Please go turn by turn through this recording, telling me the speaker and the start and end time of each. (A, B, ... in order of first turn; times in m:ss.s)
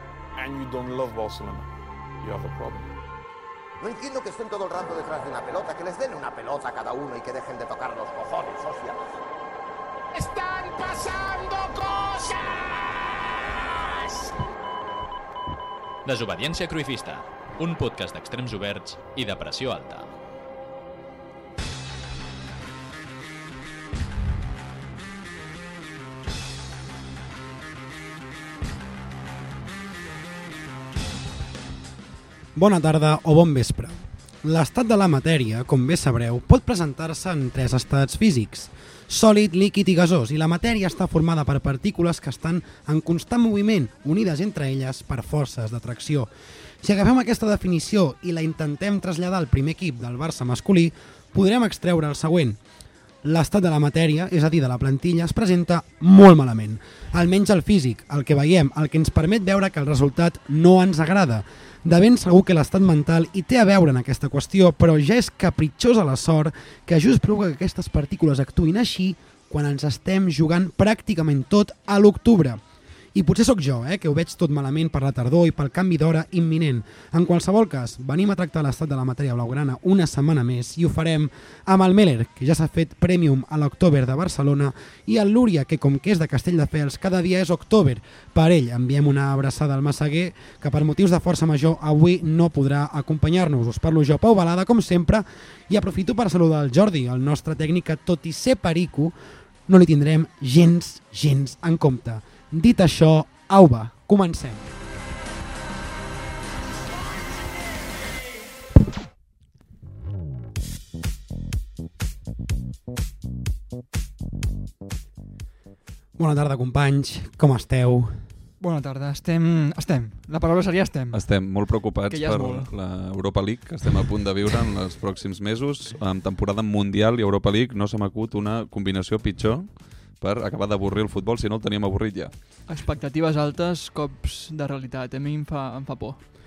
0:00.4-0:01.7 A
0:02.2-0:02.9 A
0:03.8-0:09.0 B
0:10.1-0:14.3 C
0:16.0-0:20.1 D
0:32.6-0:46.3 E
0:46.8-0:52.6 E
0:53.2-1:12.6 E
1:13.2-1:39.2 E
1:39.7-1:44.7 E
1:56.2-1:58.2 E
1:58.6-2:01.2 F
2:01.1-2:12.3 G
2:02.1-2:02.7 F
2:12.7-2:16.2 F